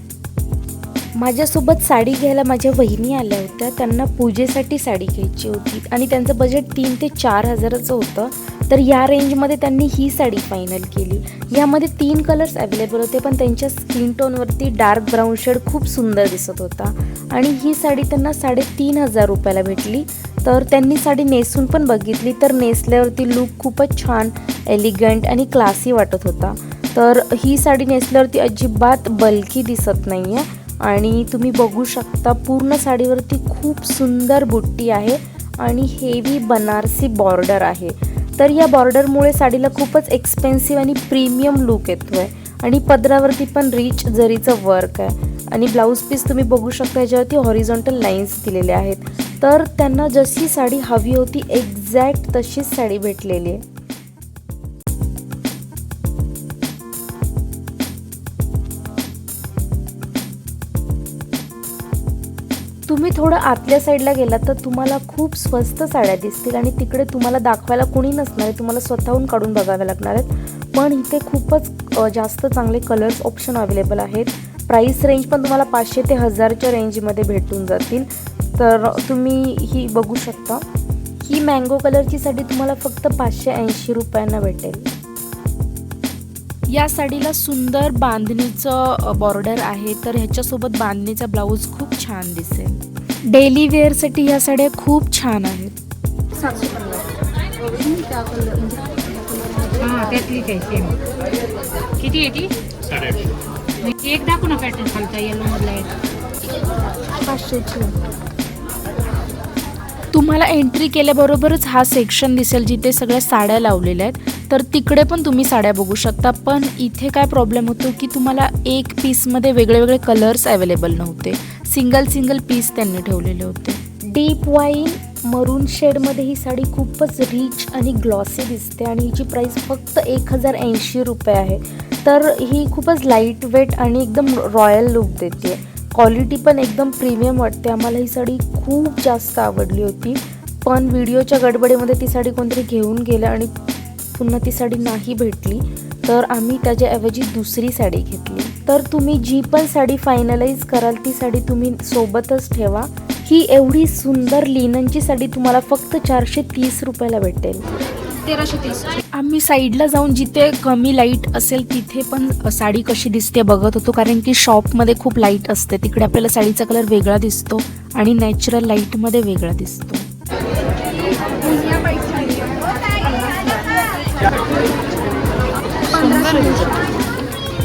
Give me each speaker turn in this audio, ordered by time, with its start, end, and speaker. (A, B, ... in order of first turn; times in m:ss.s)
0:01.1-0:53.6 A
1:02.9-1:20.6 A
1:21.2-1:24.9 A
1:26.7-1:35.7 A
1:36.4-1:37.0 B
1:37.7-1:41.0 B
1:42.0-1:42.5 B
1:43.8-1:45.9 B
1:47.2-1:47.9 B
1:50.1-2:23.5 A
2:24.1-2:37.6 A
2:38.3-2:39.0 B
2:39.1-2:50.1 A
2:51.6-2:52.2 B
2:55.9-2:56.7 B
2:56.3-2:56.6 A